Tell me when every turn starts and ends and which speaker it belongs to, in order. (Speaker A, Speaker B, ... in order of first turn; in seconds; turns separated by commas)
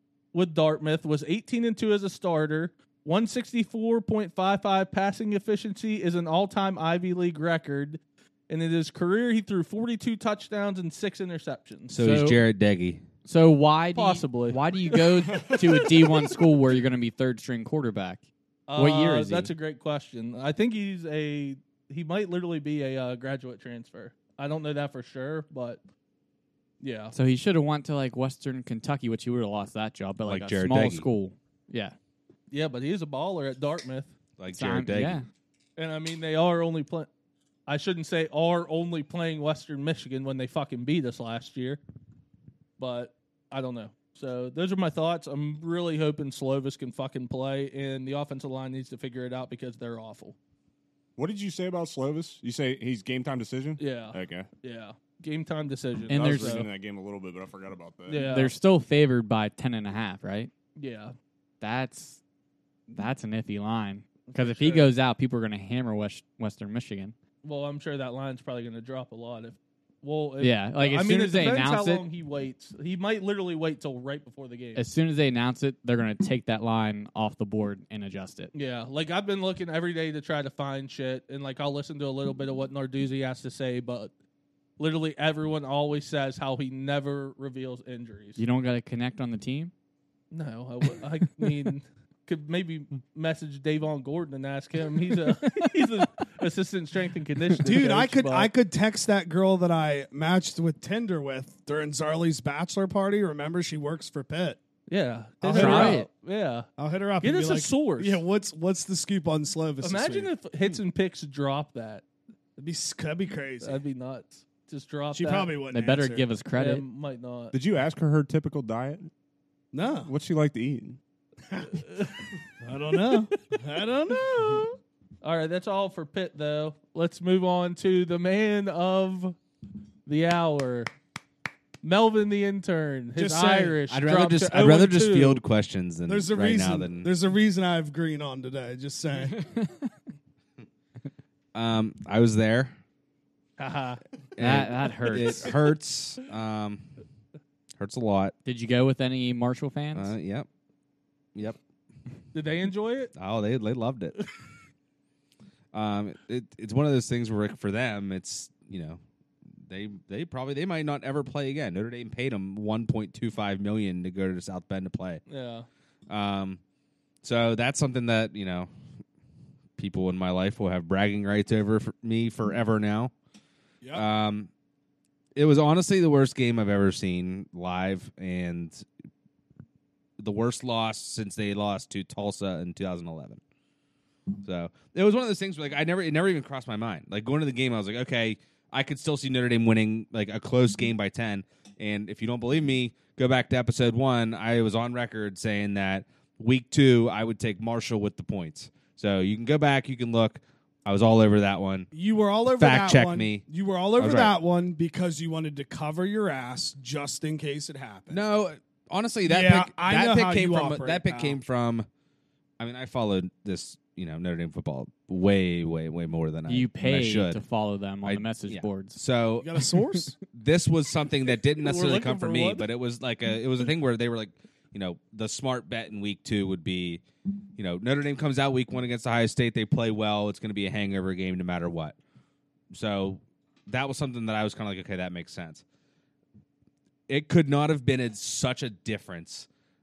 Speaker A: 0.3-12.0, Speaker B: 11.9-13.0, Speaker C: 12.0-12.4, Speaker C: 13.2-18.2, Speaker A: 13.9-14.6, Speaker D: 15.3-15.6, Speaker A: 18.7-25.8, Speaker C: 18.8-19.5, Speaker A: 26.8-27.1, Speaker C: 27.1-31.9, Speaker B: 30.2-31.1, Speaker A: 32.5-34.1, Speaker B: 34.4-35.2, Speaker C: 34.5-35.2, Speaker A: 35.8-37.1, Speaker A: 37.7-41.8, Speaker A: 42.8-50.4, Speaker D: 51.2-54.5, Speaker A: 53.8-56.7, Speaker C: 56.1-56.7, Speaker D: 56.1-58.2, Speaker A: 58.1-58.5, Speaker C: 58.1-60.5, Speaker A: 60.8-61.1, Speaker C: 61.6-62.2, Speaker C: 62.9-67.1, Speaker A: 64.3-64.9, Speaker A: 67.4-74.8, Speaker C: 70.4-72.0, Speaker C: 74.8-78.5, Speaker A: 78.5-84.1, Speaker A: 84.8-88.4, Speaker C: 88.4-89.7, Speaker A: 90.3-98.5, Speaker E: 97.6-104.6, Speaker A: 104.9-106.7, Speaker E: 105.4-106.0, Speaker C: 105.5-106.1, Speaker E: 106.8-110.3, Speaker A: 107.2-108.2, Speaker A: 109.8-112.0, Speaker E: 112.6-113.8, Speaker A: 113.6-115.5, Speaker E: 115.1-116.3, Speaker C: 115.7-116.8, Speaker A: 116.6-117.5, Speaker D: 117.5-119.1, Speaker E: 119.7-120.1, Speaker D: 120.0-121.0, Speaker A: 121.8-122.2, Speaker E: 122.6-124.7, Speaker A: 125.2-129.4, Speaker A: 130.1-130.9, Speaker A: 131.8-135.4, Speaker E: 133.2-133.8, Speaker B: 133.9-137.1, Speaker E: 136.1-139.4, Speaker C: 139.3-139.9, Speaker B: 141.5-142.7, Speaker A: 143.6-144.0, Speaker B: 144.3-146.8, Speaker C: 144.4-145.6, Speaker B: 147.8-148.3, Speaker C: 148.4-150.1, Speaker B: 149.9-150.5, Speaker A: 152.3-153.1, Speaker B: 153.2-154.2, Speaker B: 155.7-159.0, Speaker B: 159.7-165.2, Speaker A: 165.3-165.7, Speaker B: 166.1-166.6, Speaker B: 167.2-168.7, Speaker B: 169.8-173.1, Speaker B: 173.9-174.5, Speaker B: 175.3-178.8, Speaker B: 180.2-183.4, Speaker B: 184.4-201.9, Speaker E: 201.9-208.2, Speaker B: 202.5-203.4, Speaker B: 204.0-204.3, Speaker B: 208.1-211.8, Speaker E: 209.2-211.4, Speaker B: 212.6-217.4, Speaker C: 216.5-219.0, Speaker B: 218.0-219.6, Speaker E: 219.4-220.2, Speaker B: 220.3-227.0, Speaker A: 221.6-222.6, Speaker B: 227.6-231.9, Speaker B: 232.7-235.6, Speaker B: 237.1-239.5